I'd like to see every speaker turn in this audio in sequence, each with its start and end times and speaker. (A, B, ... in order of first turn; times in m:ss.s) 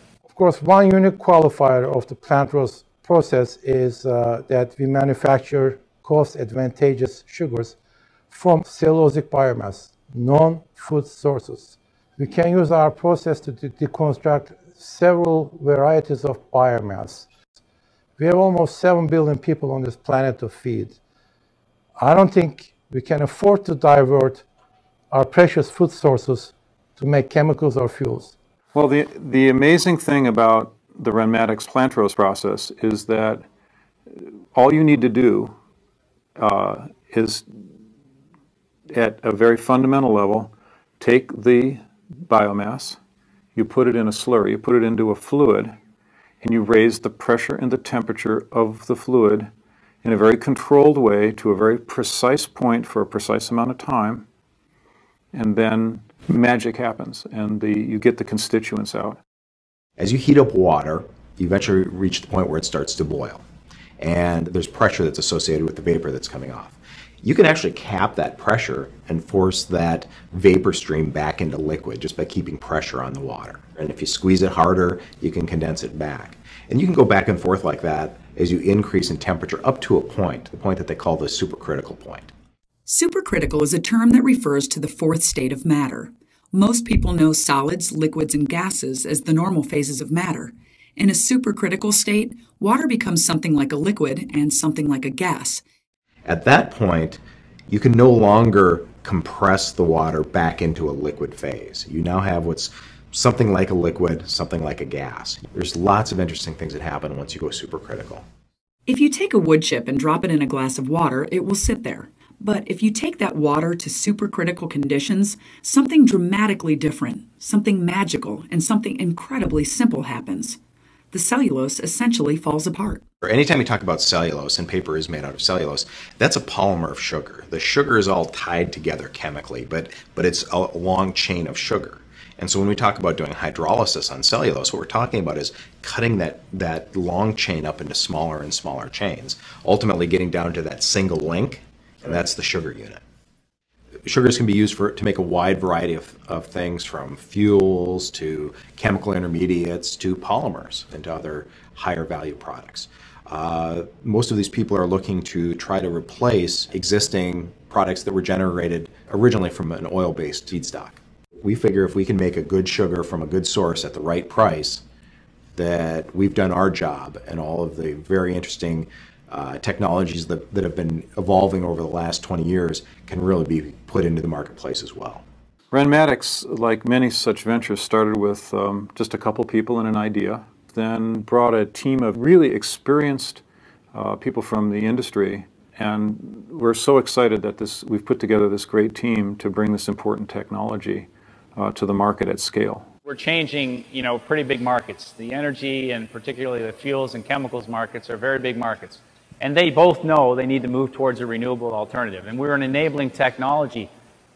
0:00.3-0:07.8 A
0:08.3-0:17.3 A
0:18.2-0:21.0 A
0:22.0-0:24.4 A
0:25.1-0:28.3 A
0:28.7-0:33.4 B
0:34.5-0:35.5 B
0:36.4-0:37.4 B
0:38.9-0:43.0 B
0:43.5-0:45.7 B
0:46.4-0:49.5 B
0:50.0-0:54.2 B
0:55.3-0:59.2 B
1:00.0-1:03.4 C
1:04.0-1:22.3 C
1:22.8-1:35.6 D
1:36.2-1:48.2 C
1:48.9-2:00.6 D
2:01.1-2:03.0 D
2:03.2-2:23.0 C
2:24.0-2:44.8 C
2:45.5-2:55.2 C
2:55.7-3:03.4 B
3:03.9-3:12.9 B
3:13.0-3:23.9 E